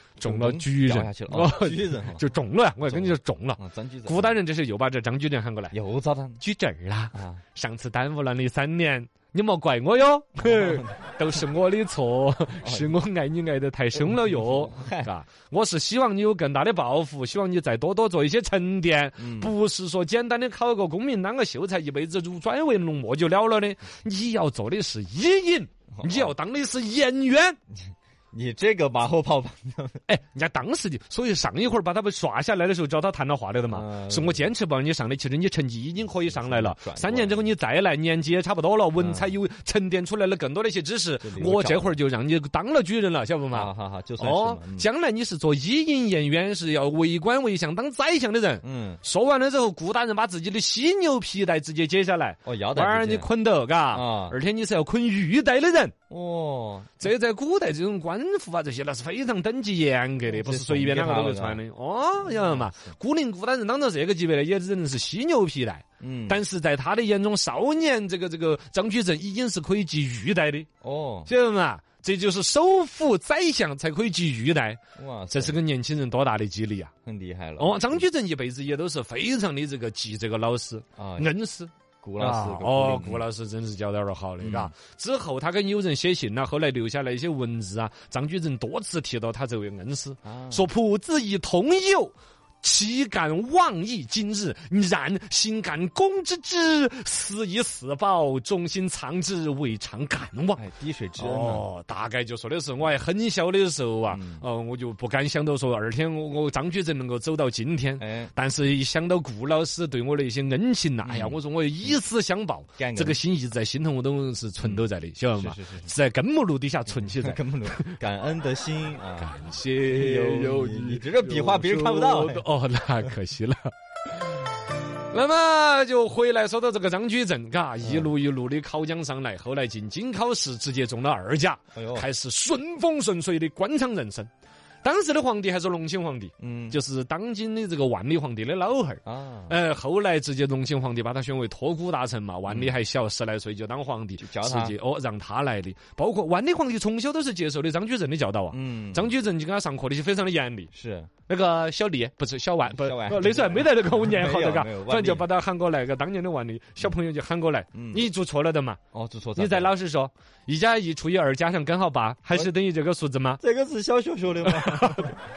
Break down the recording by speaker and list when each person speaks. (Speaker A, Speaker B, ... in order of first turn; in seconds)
Speaker A: 0.2-5.8, 6.4-27.6, 30.1-55.9, 57.0-70.7, 71.2-74.8, 75.3-76.9, 77.6-100.7, 101.2-118.0, 119.2-123.7, 125.1-134.3, 134.8-158.8, 159.3-163.4, 164.4-165.2
Speaker B: 0.2-2.2, 2.8-4.4, 5.7-6.4, 7.1-7.5, 10.4-10.9, 12.6-13.0, 13.9-15.2, 19.2-19.5, 25.9-26.4, 27.7-30.0, 33.7-34.5, 36.2-37.5, 39.0-39.4, 41.2-42.0, 43.5-44.9, 48.6-49.0, 52.4-53.3, 53.9-54.4, 56.1-57.0, 60.3-61.6, 62.2-63.0, 66.0-66.4, 70.8-71.3, 74.9-75.6, 77.0-78.1, 80.9-81.3, 82.0-83.3, 84.4-84.8, 90.2-90.7, 100.6-101.7, 104.1-104.5, 108.0-108.3, 111.0-112.0, 112.8-113.2, 114.6-115.9, 117.0-122.5, 127.8-128.1, 131.7-132.1, 136.4-136.8, 139.1-139.6, 142.5-142.8, 144.2-144.8, 148.5-149.2, 150.7-151.2, 152.6-155.3, 157.7-158.1, 158.9-159.8, 163.4-165.1